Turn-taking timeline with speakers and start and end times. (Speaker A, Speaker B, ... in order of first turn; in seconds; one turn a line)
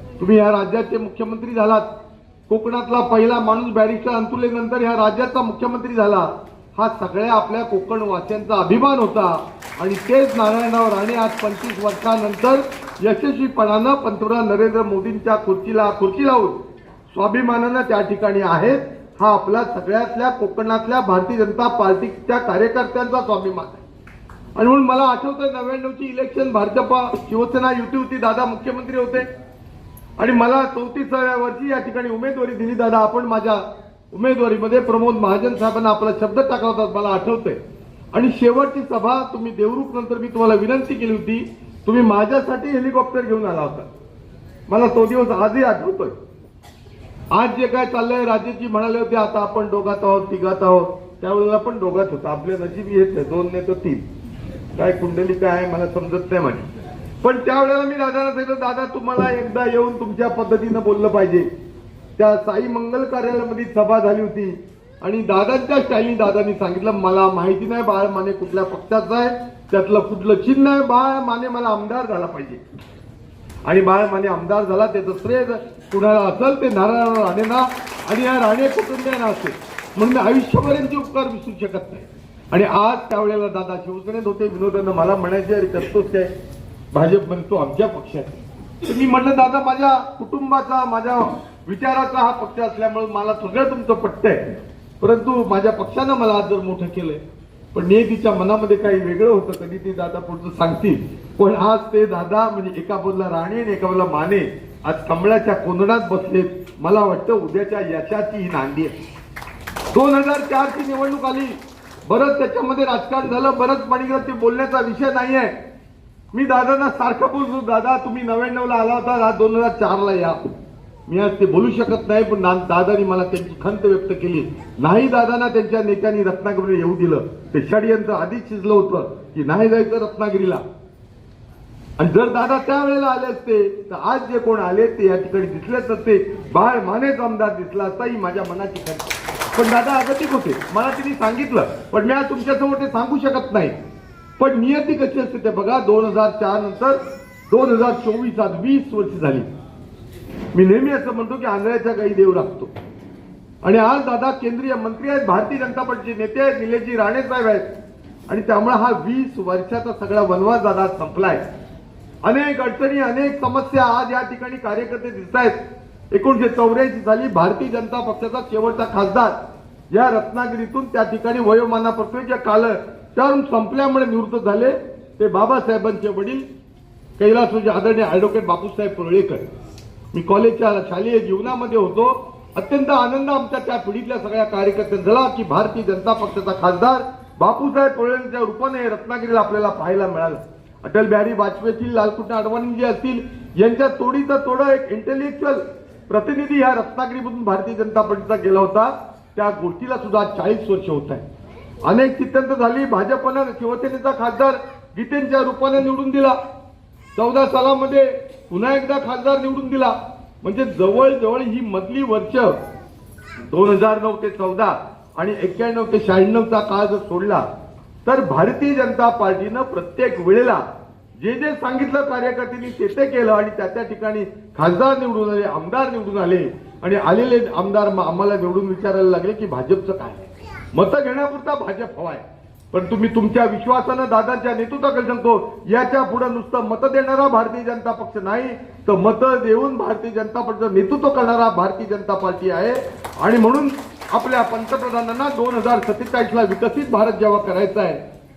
Speaker A: 0.2-1.9
Speaker A: 2.5-16.6
Speaker A: 17.1-23.8
Speaker A: 24.6-29.3
Speaker A: 30.2-37.6
Speaker A: 38.1-43.9
Speaker A: 44.7-46.1
Speaker A: 47.3-54.0
Speaker A: 54.8-61.5
Speaker A: 62.2-72.6
Speaker A: 73.7-86.3
Speaker A: 86.9-97.2
Speaker A: 97.7-108.9
Speaker A: 109.9-111.5
Speaker A: 112.1-115.5
Speaker A: 116.3-120.4
Speaker A: 121.1-130.6
Speaker A: 132.0-143.7
Speaker A: 144.4-149.5
Speaker A: 150.5-152.7
Speaker A: 153.6-157.7
Speaker A: 158.3-161.4
Speaker A: 162.2-165.6
Speaker A: 166.1-169.3
Speaker A: 169.9-176.4
Speaker A: 177.2-179.5
Speaker A: 180.1-201.2
Speaker A: 201.8-206.4
Speaker A: 207.2-212.6
Speaker A: 213.5-217.4
Speaker A: 218.0-220.6
Speaker A: 221.2-248.0